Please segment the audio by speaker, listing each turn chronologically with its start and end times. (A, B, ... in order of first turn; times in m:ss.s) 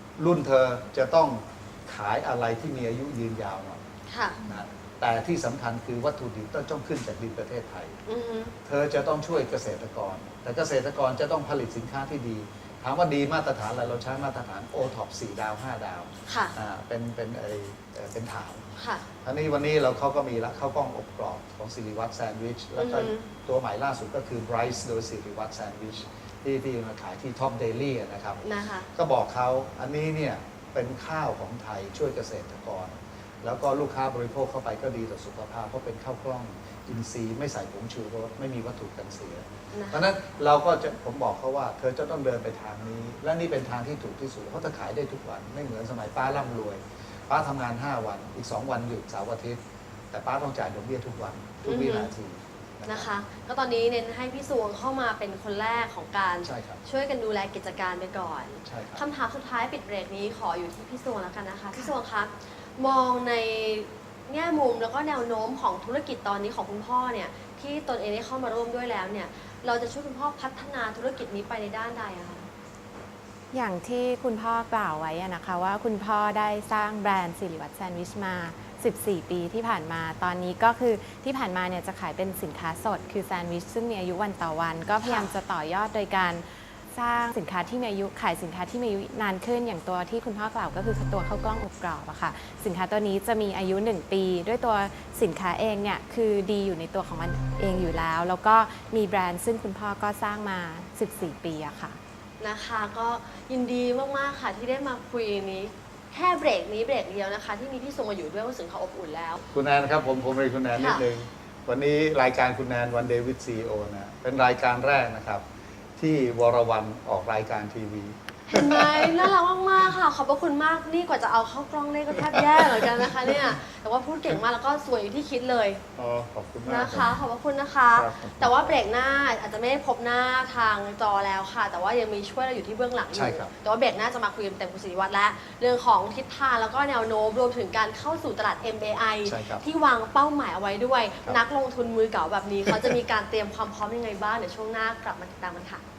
0:00.2-0:03.8 A
0:04.1-0:04.4 B
0:04.4-0:08.0 A
0:08.1-0:08.6 B
0:08.6-0:18.6 A
0:16.3-0:16.5 B
0:18.8-0:19.1 B
0:19.2-0:49.6 A
0:22.8-0:23.3 B
0:28.4-0:28.9 B
0:39.7-0:40.1 B
0:50.1-0:53.1 A
0:51.6-0:52.1 B
0:52.9-1:12.5 B
0:56.4-0:56.8 A
0:58.7-0:59.0 A
1:13.5-1:42.0 C
1:25.0-1:25.3 B
1:42.4-1:49.4 B
1:49.5-1:55.4 A
1:50.7-1:51.1 B
1:56.0-1:59.3 A
1:58.5-2:05.8 B
2:02.2-2:03.5 A
2:06.0-2:07.1 A
2:06.6-2:25.8 B
2:07.9-2:08.8 A
2:13.1-2:13.5 A
2:19.2-2:19.6 A
2:22.7-2:22.9 A